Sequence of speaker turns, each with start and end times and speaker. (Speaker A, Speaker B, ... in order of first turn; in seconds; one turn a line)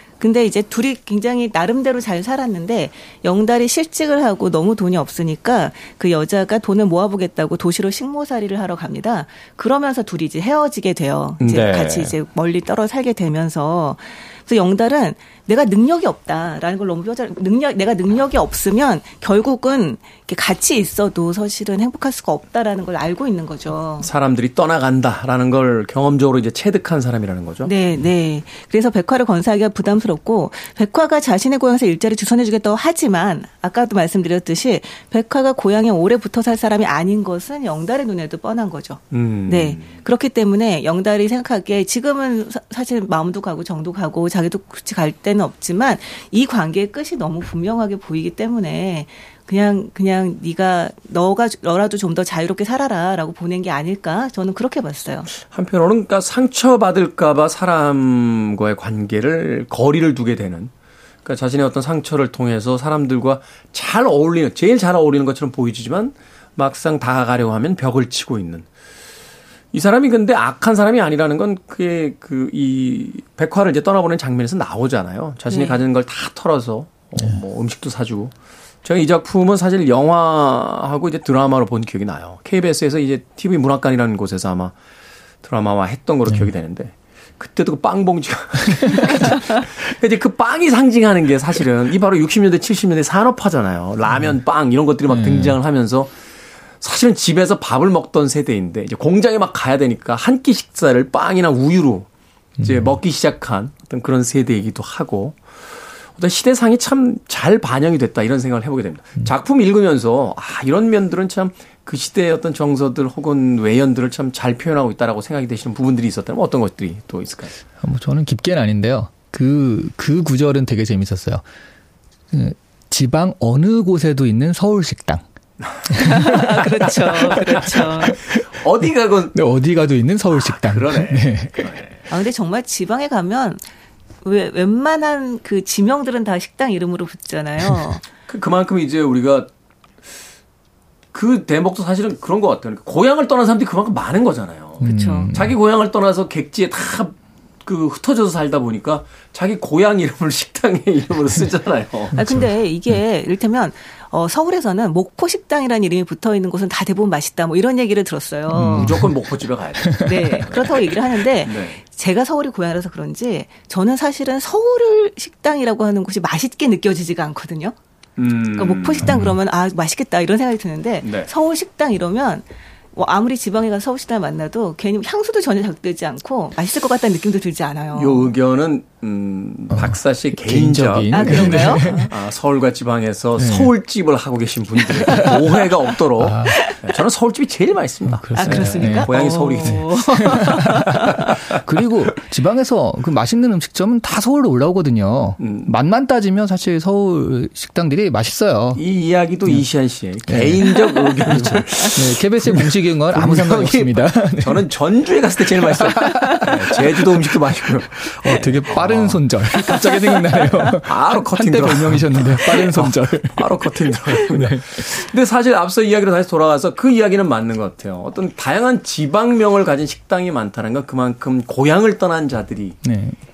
Speaker A: 0.2-24.1
Speaker B: 11.4-12.1
Speaker B: 24.0-27.7
Speaker A: 27.7-55.3
Speaker B: 39.1-39.9
Speaker B: 55.3-60.7
Speaker B: 61.2-68.7
Speaker B: 69.7-84.7
Speaker A: 75.5-75.8
Speaker B: 85.4-96.1
Speaker C: 95.1-95.5
Speaker B: 96.8-102.1
Speaker C: 102.6-102.9
Speaker B: 102.6-117.5
Speaker C: 117.8-121.4
Speaker C: 122.3-125.2
Speaker B: 125.6-129.4
Speaker C: 125.9-126.5
Speaker A: 126.0-128.2
Speaker C: 127.5-128.4
Speaker C: 129.3-131.7
Speaker B: 130.3-132.0
Speaker A: 132.1-133.6
Speaker A: 134.2-138.0
Speaker B: 138.3-139.5
Speaker B: 141.1-147.1
Speaker C: 144.8-145.6
Speaker A: 144.8-145.3
Speaker B: 147.6-152.2
Speaker C: 152.1-152.4
Speaker A: 152.2-159.0
Speaker C: 158.5-159.1
Speaker B: 158.6-160.9
Speaker A: 160.0-167.7
Speaker B: 161.4-161.8
Speaker B: 168.2-169.1
Speaker A: 168.6-178.3
Speaker C: 169.0-169.3
Speaker B: 171.0-171.3
Speaker B: 177.9-191.5
Speaker C: 179.7-182.1
Speaker A: 181.1-182.1
Speaker C: 183.4-183.7
Speaker A: 185.1-185.4
Speaker C: 186.2-186.6
Speaker A: 186.5-186.8
Speaker C: 188.1-198.8
Speaker A: 188.3-191.2
Speaker B: 195.4-195.7
Speaker B: 198.7-222.8
Speaker C: 200.3-204.7
Speaker C: 205.8-207.4
Speaker C: 208.0-214.8
Speaker C: 222.8-223.2